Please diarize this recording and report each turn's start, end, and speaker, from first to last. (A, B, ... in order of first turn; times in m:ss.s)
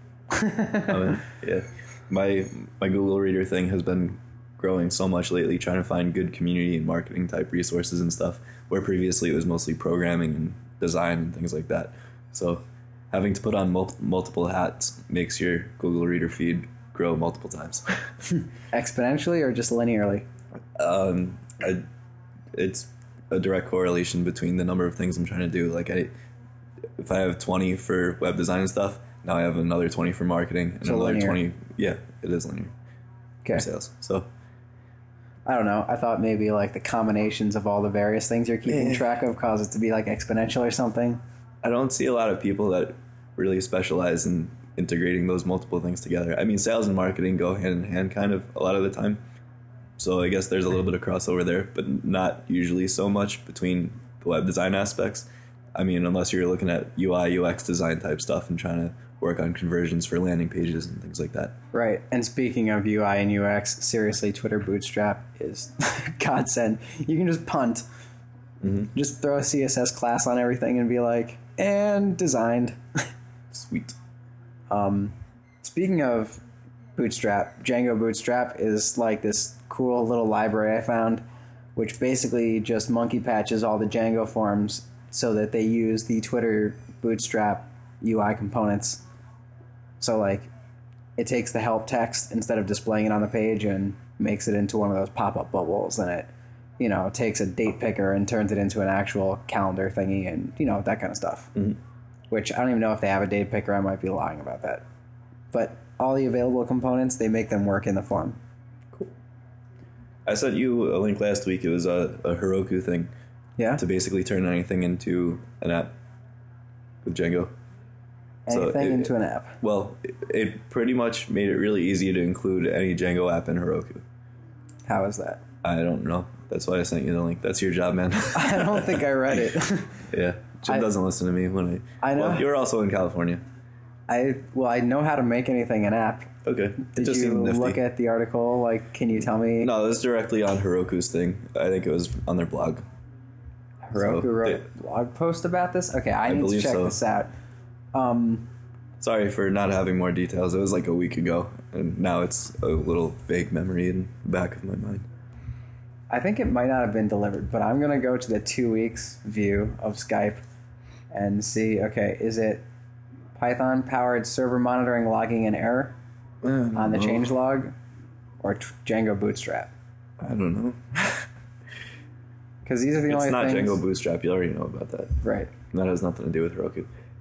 0:00.3-0:01.2 A
0:00.8-0:18.0 B
0:18.7-0:20.3 A
0:20.8-0:21.8 B
0:22.5-0:26.1 B
0:27.0-0:32.7 B
0:30.8-0:31.4 A
0:33.5-0:34.3 B
0:35.4-0:41.2 A
0:38.7-0:39.0 B
0:41.6-0:49.2 B
0:50.0-1:01.5 B
1:01.7-1:07.8 A
1:08.6-1:08.9 B
1:08.9-1:13.1 A
1:13.5-1:14.0 B
1:14.7-1:16.4 A
1:17.0-1:21.2 A
1:21.8-1:29.0 A
1:30.0-1:30.5 A
1:31.2-1:41.5 A
1:42.3-1:44.8 A
1:45.5-1:48.4 A
1:50.2-1:53.1 B
1:53.8-1:55.9 B
1:57.0-1:57.5 B
1:58.4-1:59.6 A
1:58.5-2:04.0 B
2:04.9-2:05.4 A
2:05.6-2:09.0 B
2:08.3-2:10.1 A
2:10.1-2:13.4 B
2:12.0-2:12.5 A
2:14.1-2:19.7 A
2:16.4-2:17.8 B
2:19.6-2:22.8 B
2:23.9-2:27.3 A
2:24.0-2:24.6 B
2:26.2-2:27.0 B
2:27.9-2:28.5 A
2:29.0-2:35.1 B
2:36.1-2:40.4 A
2:41.1-2:42.6 A
2:43.4-2:46.0 A
2:46.4-2:47.3 B
2:46.7-2:47.7 A
2:48.4-2:49.7 A
2:50.2-2:51.2 B
2:52.6-2:53.8 A
2:53.1-2:55.2 B
2:55.2-2:55.5 A
2:55.7-2:56.9 B